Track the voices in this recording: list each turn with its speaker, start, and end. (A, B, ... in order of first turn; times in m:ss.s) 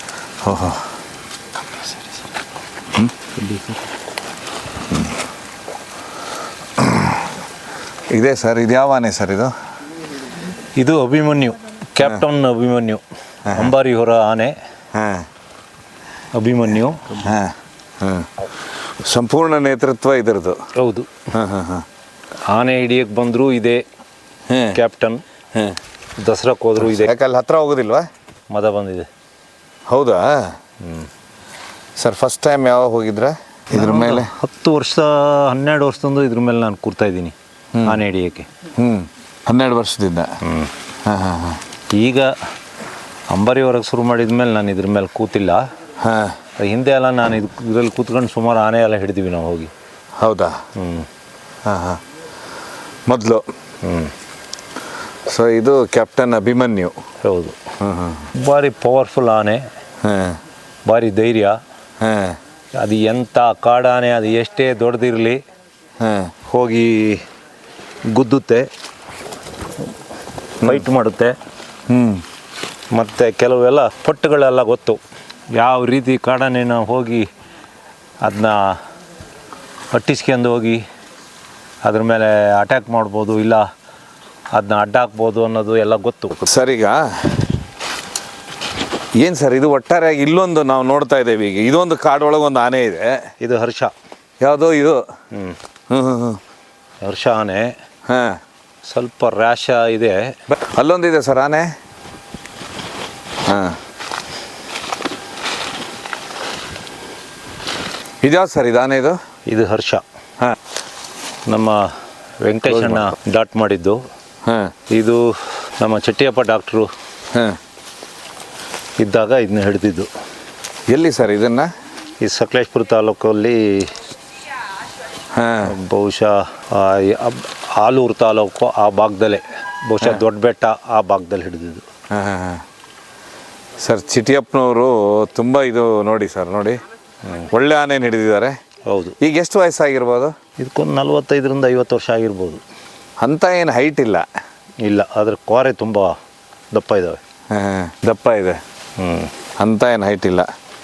0:00.4-0:00.8 A
0:03.4-0:03.8 B
0:06.9-0:07.2 A
0:08.1-0:09.5 A
0:10.8-0:14.5 B
0:14.9-0:15.3 A
0:16.3-0:17.2 B
0:17.2-0:18.3 A
0:19.0-0:20.6 A
0:20.8-0:21.3 B
0:21.3-0:21.8 A
0:22.5-0:23.8 B
0:24.5-0:24.8 A
0:24.8-0:25.2 B
0:26.2-0:27.1 B
0:26.8-0:28.1 A
0:28.5-0:29.1 B
0:29.9-0:30.6 A
0:30.8-0:31.1 B
0:32.0-0:34.3 A
0:33.7-0:37.3 B
0:37.8-0:38.5 B
0:38.8-0:40.3 A
0:40.4-0:40.7 B
0:41.0-0:41.6 A
0:42.0-0:42.3 B
0:43.3-0:45.6 B
0:46.0-0:46.4 A
0:46.6-0:49.7 B
0:50.2-0:50.6 A
0:50.8-0:51.1 B
0:51.7-0:52.0 A
0:53.1-0:53.4 A
0:53.8-0:54.1 B
0:55.3-0:57.0 A
0:57.2-0:57.6 B
0:57.8-0:58.3 A
0:58.4-0:59.6 B
1:00.0-1:00.4 A
1:00.9-1:01.6 B
1:02.0-1:02.4 A
1:02.8-1:05.4 B
1:06.0-1:06.3 A
1:06.5-1:07.2 B
1:08.1-1:08.7 B
1:10.6-1:11.4 B
1:11.9-1:12.2 A
1:12.9-1:15.0 B
1:15.6-1:17.3 B
1:18.2-1:18.8 B
1:19.9-1:20.8 B
1:21.8-1:23.6 B
1:24.5-1:26.5 B
1:26.5-1:27.5 A
1:29.2-1:33.2 A
1:33.4-1:33.9 B
1:34.4-1:35.0 A
1:35.9-1:36.4 A
1:37.0-1:37.7 B
1:38.1-1:38.4 A
1:38.9-1:40.3 B
1:40.5-1:41.7 A
1:43.5-1:43.8 A
1:48.2-1:49.2 A
1:49.5-1:50.0 B
1:51.5-1:51.8 B
1:52.4-1:54.0 B
1:52.7-1:53.0 A
1:54.5-1:54.7 A
1:54.9-1:55.2 B
1:55.8-1:56.9 B
1:59.0-2:00.1 B
2:00.9-2:01.7 A
2:02.2-2:03.9 B
2:05.3-2:05.7 A
2:05.6-2:11.8 B
2:12.1-2:12.6 A
2:13.8-2:16.8 A
2:17.5-2:18.6 A
2:18.9-2:19.2 B
2:19.2-2:20.4 A
2:20.6-2:22.6 B
2:23.2-2:24.2 A
2:24.8-2:26.1 B
2:26.7-2:27.2 B
2:27.5-2:28.6 A
2:29.0-2:29.3 B
2:29.6-2:30.5 A